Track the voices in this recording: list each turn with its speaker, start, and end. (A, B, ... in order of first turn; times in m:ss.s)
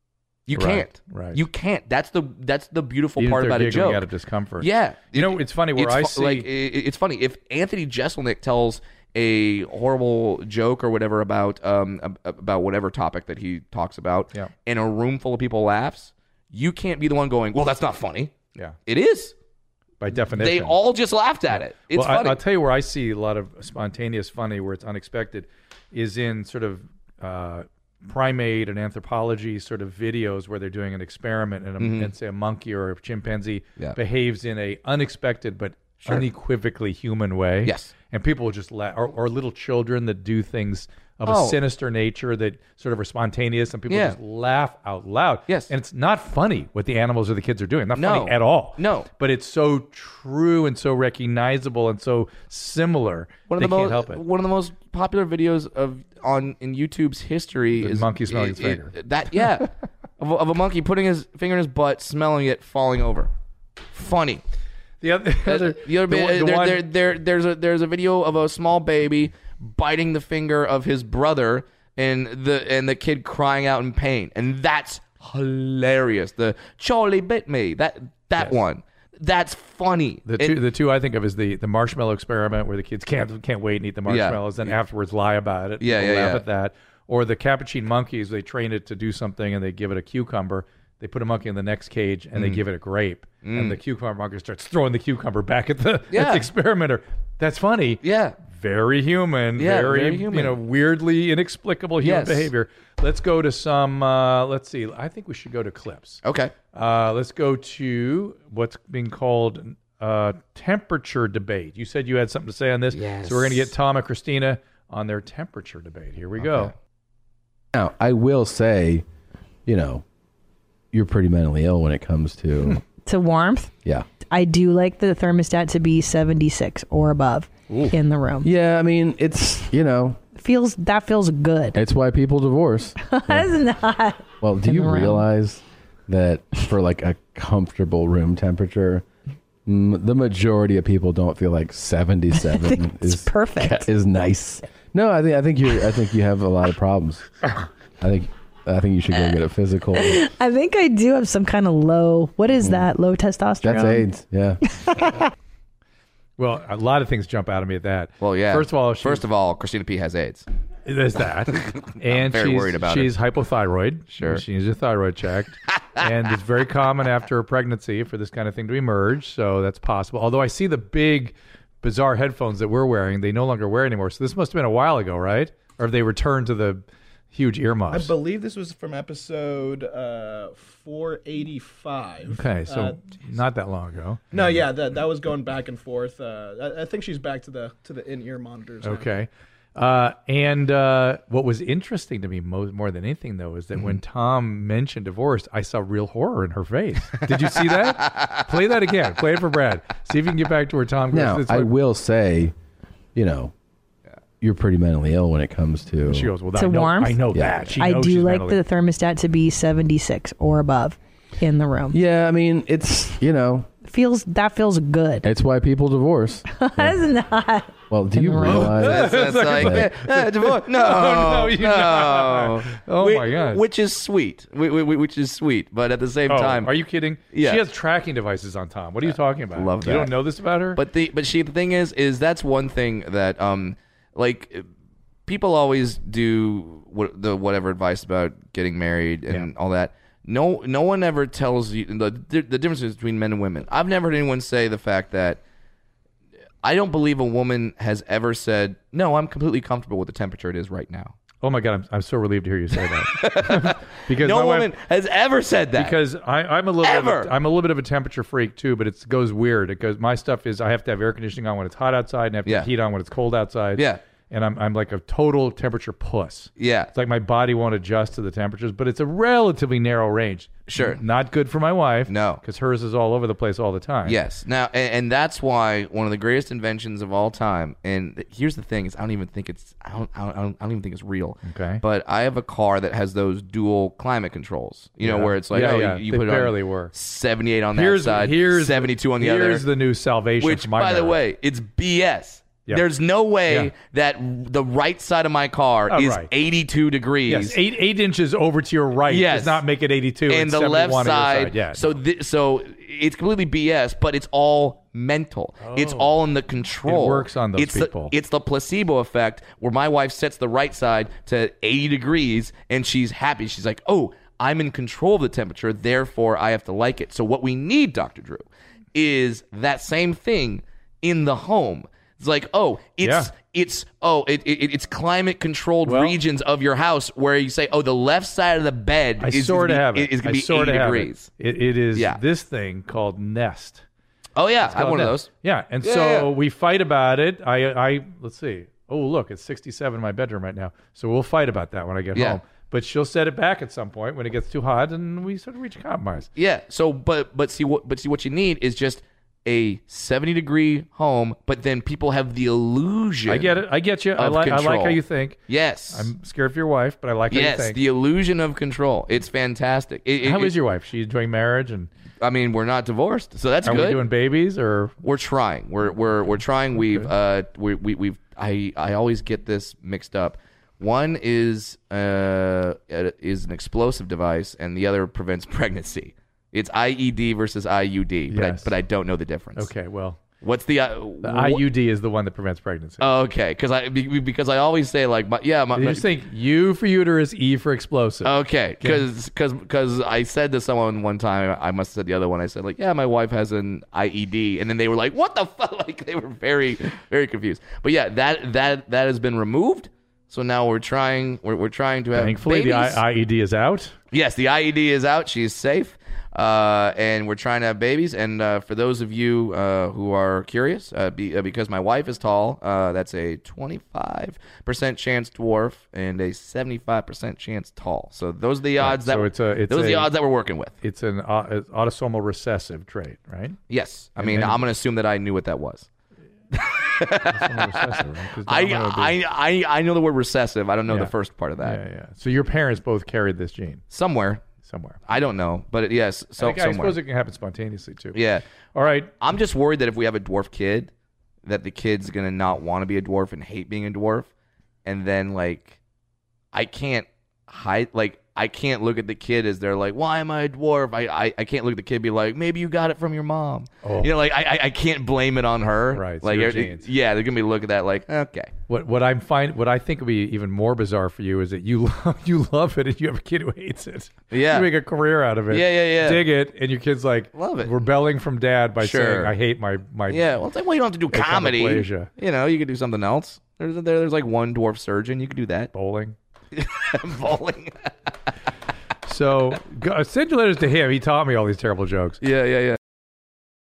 0:00.5-0:04.1 A
0:00.5-0:01.4 B
0:03.2-0:06.5 B
0:04.6-0:18.3 A
0:18.8-0:19.3 A
0:20.0-0:20.8 B
0:20.3-0:22.4 A
0:21.5-0:54.2 B
0:31.8-0:32.1 A
0:37.6-0:37.9 A
0:41.2-0:41.6 A
0:43.9-0:44.2 A
0:47.9-0:49.1 A
0:53.5-1:03.3 A
0:57.8-0:58.9 B
1:03.9-1:04.4 A
1:05.0-1:06.8 B
1:05.4-1:20.6 A
1:20.2-1:46.2 B
1:24.1-1:24.7 A
1:25.8-1:26.4 A
1:32.3-1:32.6 A
1:33.4-1:33.8 A
1:36.1-1:36.5 A
1:38.0-1:38.4 A
1:39.6-1:40.6 A
1:42.0-1:42.5 A
1:46.2-1:46.5 A
1:46.7-1:56.7 B
1:52.9-1:53.7 A
1:56.4-1:56.7 A
1:57.7-1:59.0 C
1:59.6-2:00.0 C
2:00.9-2:02.8 C
2:03.0-2:03.7 D
2:04.3-2:08.5 D
2:08.4-2:10.2 C
2:10.4-2:11.8 D
2:11.7-2:13.5 C
2:13.0-2:15.2 D
2:14.4-2:19.0 C
2:19.6-2:27.3 C
2:22.3-2:23.8 D
2:28.0-2:30.2 C
2:30.0-2:34.1 D
2:32.6-2:32.9 C
2:33.6-2:35.0 C
2:34.8-2:35.1 D
2:36.4-2:39.2 B
2:38.2-2:40.5 A
2:40.8-2:58.1 B
2:41.5-2:43.1 A
2:44.1-2:44.4 A
2:57.9-3:03.0 E
3:02.3-3:04.6 B
3:04.3-3:09.1 E
3:08.8-3:21.7 B
3:17.4-3:18.4 A
3:21.1-3:22.5 C
3:23.1-3:23.5 C
3:24.4-3:26.3 C
3:26.1-3:28.6 B
3:26.5-3:27.2 D
3:27.3-3:27.8 C
3:27.8-3:32.0 D
3:31.9-3:33.7 C
3:33.8-3:35.3 D
3:35.2-3:37.0 C
3:36.5-3:38.7 D
3:37.9-3:39.9 C
3:38.4-3:43.6 B
3:38.7-3:46.8 A
3:46.3-3:50.8 B
3:47.3-3:47.6 A
3:49.0-3:50.2 A
3:50.7-3:54.7 A
3:55.2-4:05.4 A
4:06.6-4:11.1 A
4:11.4-4:14.7 B
4:12.7-4:16.0 A
4:15.8-4:34.2 B
4:16.8-4:17.3 A
4:23.8-4:24.0 A
4:26.6-4:26.9 A
4:30.7-4:31.0 A
4:32.1-4:32.4 A
4:34.0-4:49.6 A
4:41.4-4:41.8 B
4:45.0-4:46.9 B
4:47.7-4:51.2 B
4:50.4-4:57.6 A
4:55.9-4:56.3 B
4:57.3-5:02.0 B
4:59.1-4:59.6 A
5:00.3-5:31.3 A
5:05.6-5:06.2 B
5:06.8-5:08.1 B
5:23.0-5:23.3 B
5:25.8-5:26.2 B
5:29.2-5:33.8 B
5:31.9-5:32.2 A
5:34.3-5:35.3 A
5:34.6-5:46.3 B
5:35.8-5:36.3 A
5:42.1-5:42.4 A
5:46.4-5:53.6 A
5:53.3-5:55.4 B
5:54.2-5:56.1 A
5:55.9-5:57.8 B
5:57.3-6:00.5 A
6:00.2-6:01.9 B
6:02.2-6:04.0 A
6:03.6-6:04.9 B
6:05.0-6:19.7 A
6:06.8-6:07.1 B
6:18.3-6:18.7 B
6:19.6-6:20.2 B
6:20.4-6:21.6 A
6:21.2-6:23.0 B
6:23.0-6:26.0 A
6:25.7-6:29.0 B
6:28.2-6:43.0 A
6:42.1-6:43.9 B
6:44.1-7:00.8 A
6:58.8-7:00.1 B
7:00.8-7:03.6 B
7:03.7-7:05.9 A
7:04.2-7:04.6 B
7:06.5-7:11.8 A
7:07.2-7:09.2 B
7:10.9-7:13.8 B
7:13.9-7:14.4 A
7:14.6-7:15.0 B
7:15.1-7:17.0 A
7:16.4-7:18.2 B
7:18.1-7:18.4 A
7:18.7-7:19.1 B
7:19.1-7:20.9 A
7:21.4-7:24.3 A
7:24.8-7:25.8 A
7:26.5-7:38.5 A
7:33.8-7:34.1 B
7:35.9-7:36.8 B
7:38.7-7:50.4 B
7:44.3-7:44.7 A
7:45.5-7:46.2 A
7:47.3-7:47.7 A
7:48.8-7:49.3 A
7:50.1-7:55.7 A
7:51.1-7:52.1 B
7:55.7-7:56.2 B
7:56.5-7:58.1 A
7:59.0-8:02.2 B
8:02.2-8:02.8 A